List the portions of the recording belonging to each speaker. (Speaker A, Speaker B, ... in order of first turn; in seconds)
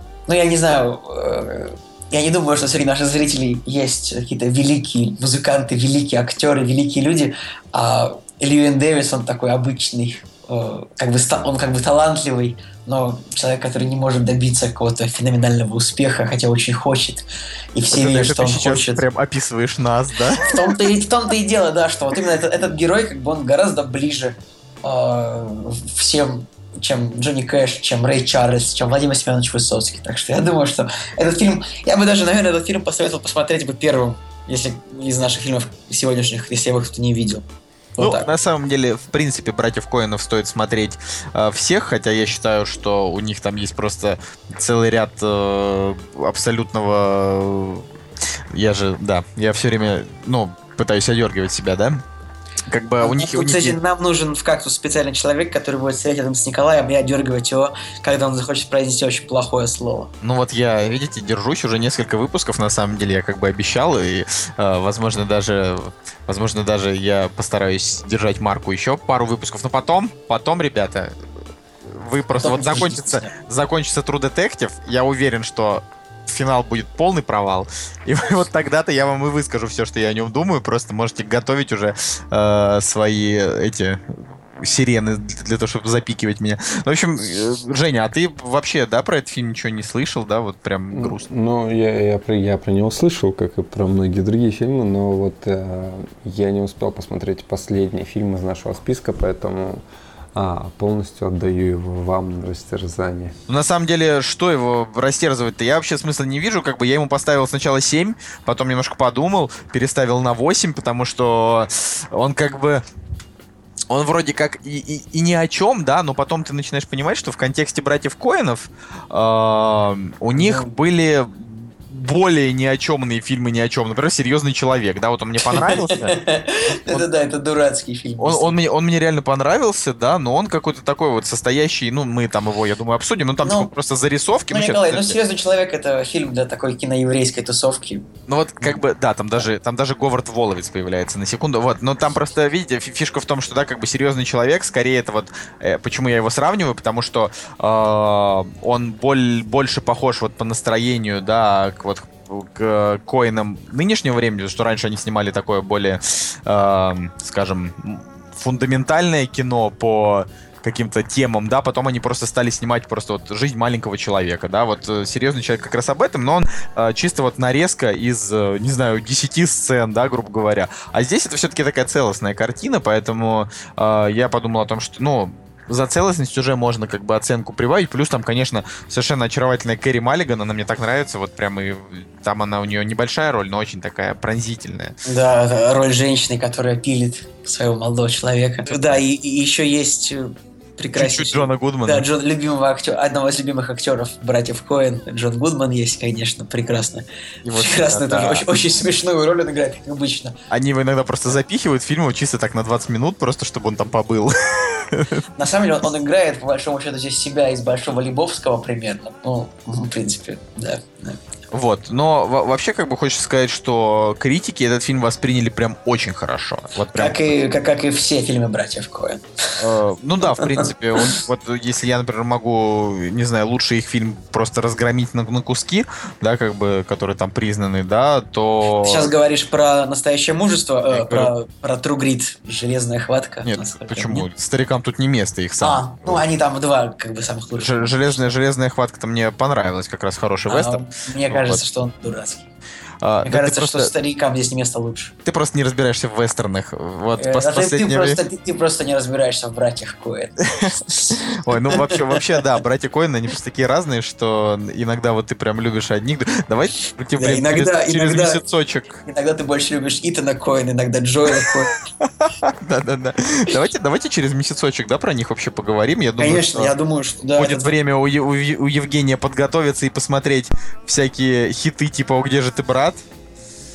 Speaker A: 0.3-19.0, 20.4-38.3, 53.0-60.1, 72.4-73.3, 120.3-120.8, 125.5-128.6, 133.4-133.7, 134.5-138.1, 185.1-200.3, 205.4-211.2, 216.9-219.6, 220.2-221.2, 228.8-234.3, 235.6-238.2, 240.5-242.5, 243.2-245.1, 247.2-252.4, 257.2-258.4, 259.1-261.7, 266.2-267.7
Speaker B: 17.9-20.6, 38.0-47.9, 48.5-52.0, 52.7-53.8, 60.2-71.1, 71.9-91.2, 103.5-112.8, 113.9-126.2, 128.2-135.2, 138.3-185.0, 190.9-192.1, 197.4-198.5, 200.5-205.2, 211.5-217.4, 219.6-229.1, 230.9-231.3, 233.4-236.2, 237.6-241.6, 243.0-243.9, 245.2-248.2, 250.6-259.0, 262.0-266.7, 267.4-273.0
Speaker C: 90.9-99.8, 100.3-103.4